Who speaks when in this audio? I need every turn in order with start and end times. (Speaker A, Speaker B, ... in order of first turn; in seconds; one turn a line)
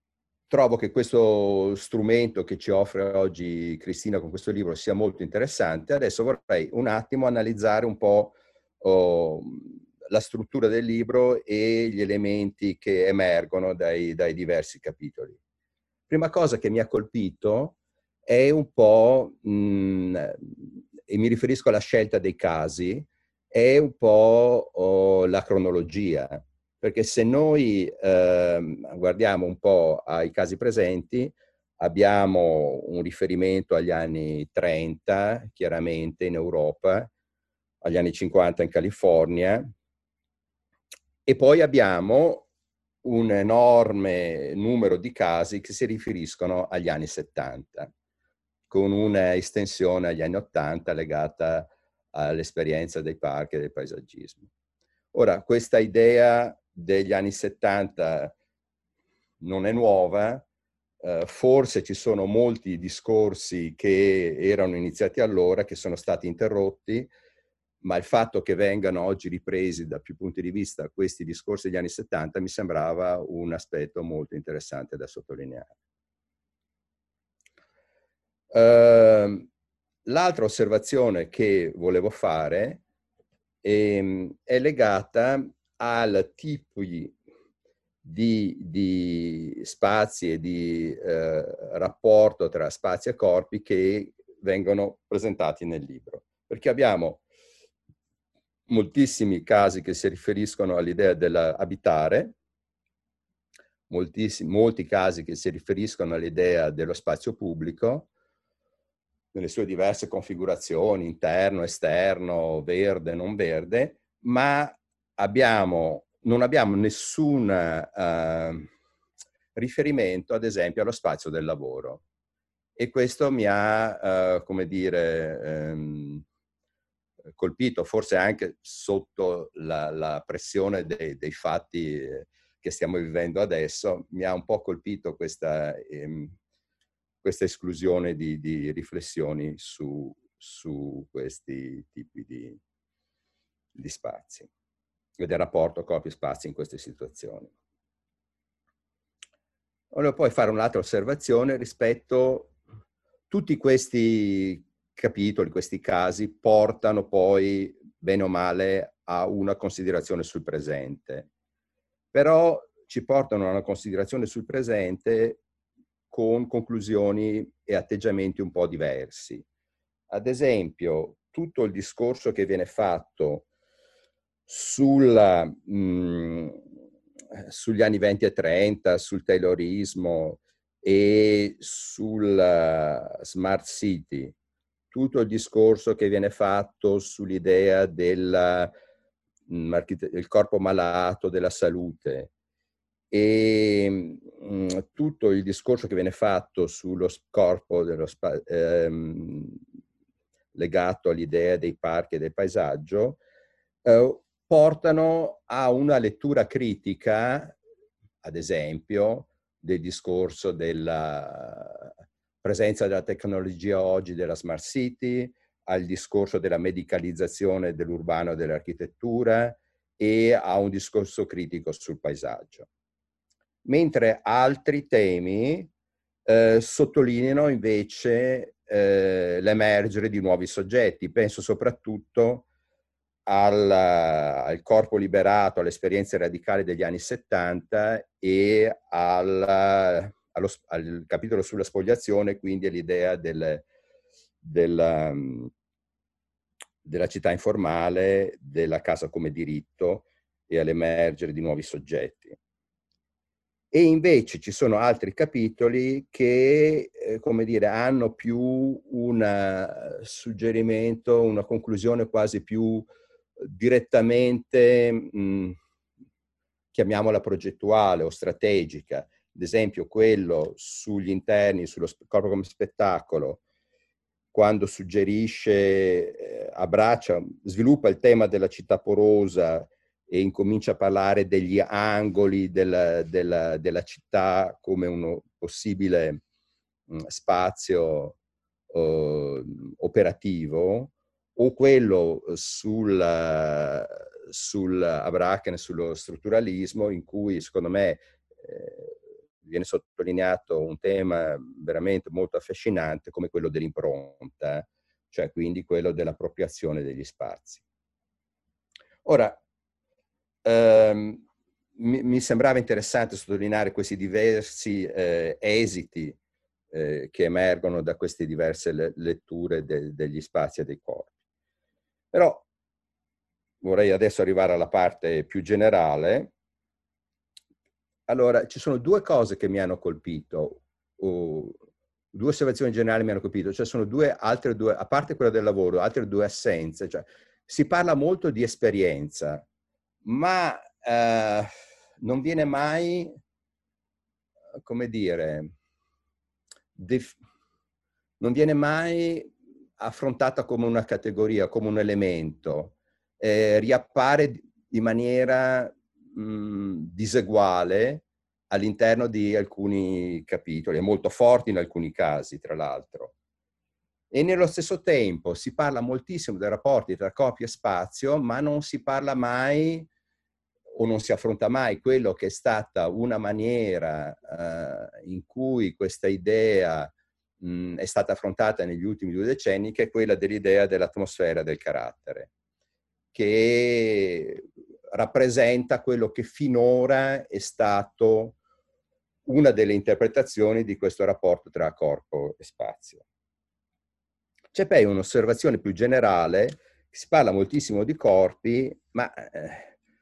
Speaker A: 0.5-15.4
Speaker A: 16.1-37.1
Speaker A: 37.8-39.7
Speaker A: 41.3-42.5
Speaker A: 43.0-47.9
Speaker A: 48.7-54.5
Speaker A: 55.1-58.3
Speaker A: 59.4-60.5
Speaker A: 61.0-67.1
Speaker A: 67.8-75.7
Speaker A: 78.5-79.5
Speaker A: 80.1-82.8
Speaker A: 83.6-87.1
Speaker A: 88.0-97.2
Speaker A: 98.7-102.4
Speaker A: 103.9-108.1
Speaker A: 109.3-118.7
Speaker A: 119.5-122.0
Speaker A: 122.8-126.2
Speaker A: 127.4-136.3
Speaker A: 137.2-142.6
Speaker A: 143.8-144.5
Speaker A: 145.2-147.5
Speaker A: 149.9-152.6
Speaker A: 153.3-161.3
Speaker A: 162.1-165.4
Speaker A: 166.1-169.4
Speaker A: 170.1-173.5
Speaker A: 174.5-176.6
Speaker A: 177.4-184.3
Speaker A: 184.9-188.7
Speaker A: 189.5-192.3
Speaker A: 193.1-199.6
Speaker A: 200.6-203.2
Speaker A: 203.8-207.6
Speaker A: 208.2-211.9
Speaker A: 212.4-222.7
Speaker A: 223.7-225.7
Speaker A: 226.3-232.4
Speaker A: 233.3-243.7
Speaker A: 244.4-245.5
Speaker A: 246.8-252.4
Speaker A: 253.7-262.9
Speaker A: 263.4-265.6
Speaker A: 266.7-273.4
Speaker A: 274.3-286.2
Speaker A: 286.9-288.2
Speaker A: 288.7-307.6
Speaker A: 309.1-309.4
Speaker A: 310.4-311.2
Speaker A: 311.8-316.2
Speaker A: 316.7-321.1
Speaker A: 322.1-322.4
Speaker A: 323.6-326.3
Speaker A: 328.1-331.6
Speaker A: 332.1-339.4
Speaker A: 340.1-341.5
Speaker A: 342.0-343.1
Speaker A: 344.6-345.5
Speaker A: 346.8-347.2
Speaker A: 348.2-363.1
Speaker A: 364.1-369.9
Speaker A: 370.8-382.3
Speaker A: 383.1-388.4
Speaker A: 389.3-393.0
Speaker A: 394.5-399.7